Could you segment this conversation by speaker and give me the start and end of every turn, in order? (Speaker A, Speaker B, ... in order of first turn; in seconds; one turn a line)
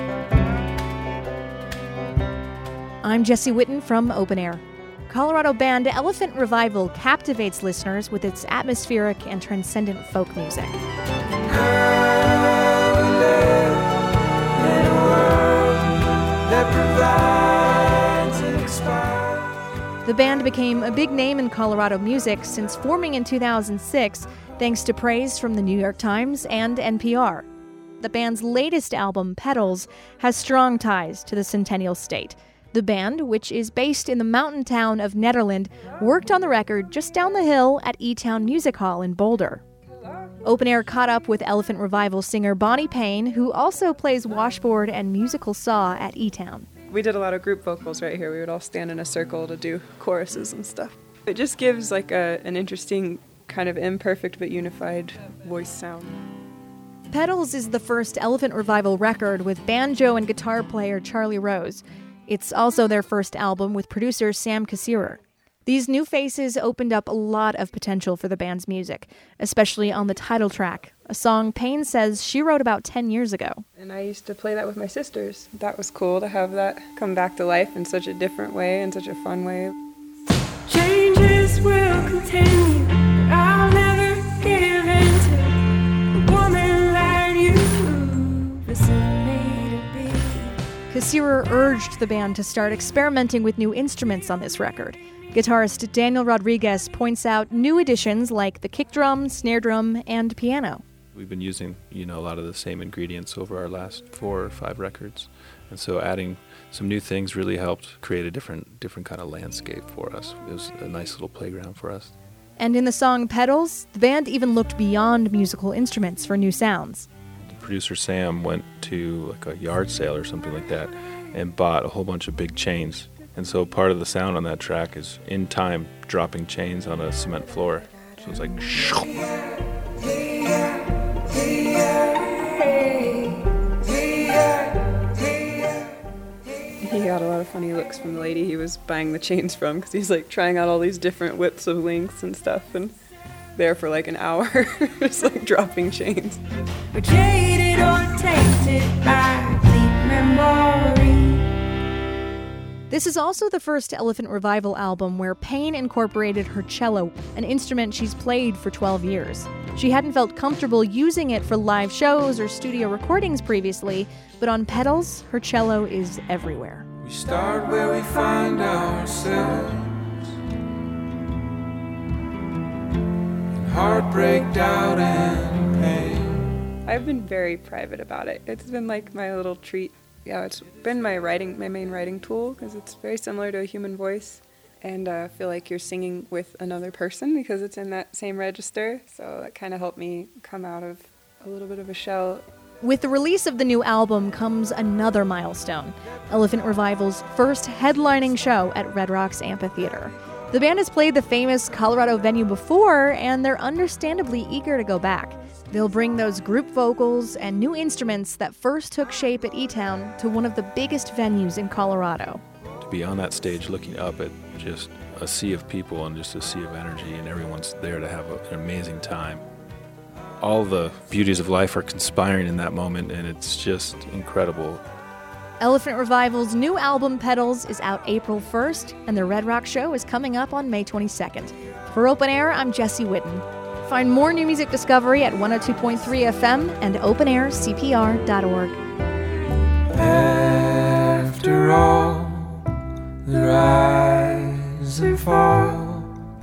Speaker A: 3.0-10.8
Speaker B: 16.7-16.9
Speaker B: 18.4-18.7
Speaker A: 20.0-27.4
Speaker A: 28.0-39.6
Speaker A: 40.4-46.7
Speaker C: 46.9-56.2
Speaker A: 57.1-73.6
Speaker C: 73.8-79.7
Speaker C: 80.7-90.6
Speaker A: 90.9-100.8
Speaker B: 101.1-112.1
Speaker A: 112.6-117.1
Speaker B: 117.5-129.2
Speaker C: 132.0-133.5
Speaker C: 136.8-142.9
Speaker C: 143.6-151.5
Speaker A: 152.9-166.9
Speaker B: 167.0-169.9
Speaker B: 173.6-176.3
Speaker C: 176.8-192.4
Speaker A: 192.8-212.4
Speaker B: 212.8-219.4
Speaker B: 220.4-224.8
Speaker A: 225.6-238.8
Speaker B: 239.9-242.6
Speaker B: 243.2-246.1